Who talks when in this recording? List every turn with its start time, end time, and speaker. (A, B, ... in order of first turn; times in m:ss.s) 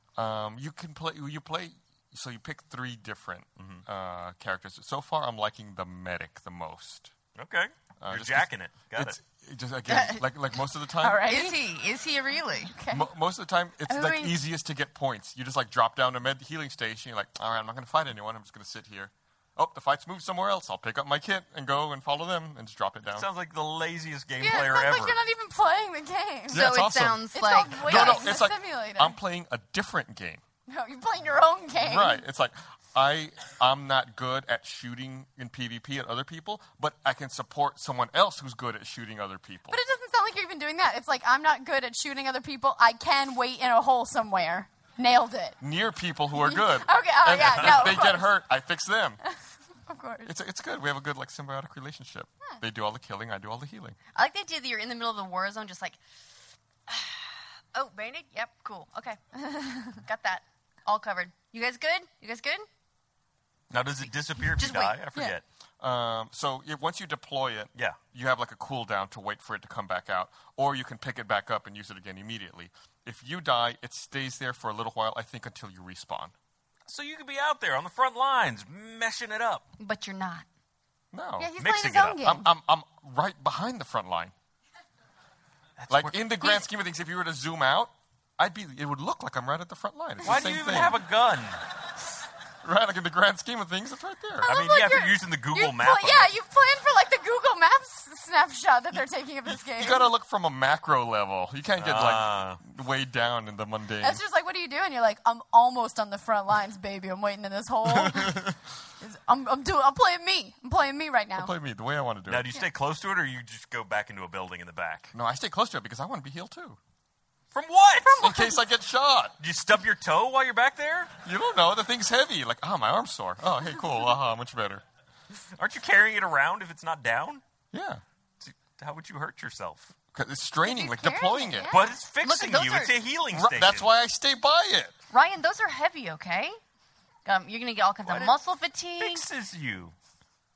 0:00.2-0:07.1 A
0:03.6-0:03.8 B
0:07.4-0:09.2 B
0:08.0-0:11.3 A
0:09.9-0:10.2 C
0:11.0-0:11.6 D
0:11.2-0:12.7 C
0:12.7-0:13.0 D
0:12.9-0:23.3 A
0:13.9-0:14.3 C
0:23.1-0:25.2 B
0:24.4-0:26.7 D
0:26.5-0:30.4 A
0:26.5-0:28.1 C
0:27.3-0:29.2 D
0:30.7-0:32.2 D
0:31.8-0:39.8 A
0:39.7-0:45.6 D
0:45.6-0:49.2 A
0:46.4-0:48.3 D
0:49.8-0:50.3 D
0:50.2-0:54.0 A
0:54.1-0:56.0 C
0:56.9-0:59.2 C
0:59.4-1:00.0 D
0:59.9-1:02.6 C
1:03.7-1:05.4 B
1:04.6-1:05.0 C
1:05.8-1:16.3 A
1:16.9-1:19.6 B
1:19.8-1:20.4 C
1:21.1-1:21.6 A
1:21.4-1:22.5 D
1:21.6-1:22.2 B
1:22.2-1:24.3 A
1:25.8-1:26.6 B
1:25.9-1:31.0 A
1:30.2-1:31.6 B
1:32.6-1:34.6 A
1:34.4-1:40.1 D
1:34.4-1:36.3 B
1:39.8-1:44.2 A
1:41.8-1:42.6 B
1:44.0-1:48.5 D
1:47.9-1:48.6 A
1:49.0-1:51.5 D
1:51.3-1:52.5 A
1:52.3-1:55.1 B
1:55.1-1:56.8 A
1:57.5-1:58.4 B
1:58.0-1:58.6 D
1:58.2-1:59.4 A
1:59.4-2:01.1 B
2:01.2-2:04.8 A
2:05.5-2:07.4 B
2:07.7-2:08.0 A
2:08.4-2:09.9 B
2:10.1-2:11.8 A
2:10.6-2:12.0 D
2:11.7-2:13.9 B
2:12.2-2:13.0 C
2:13.3-2:14.9 A
2:15.1-2:16.6 C
2:17.2-2:19.2 C
2:18.0-2:18.3 B
2:19.0-2:19.9 B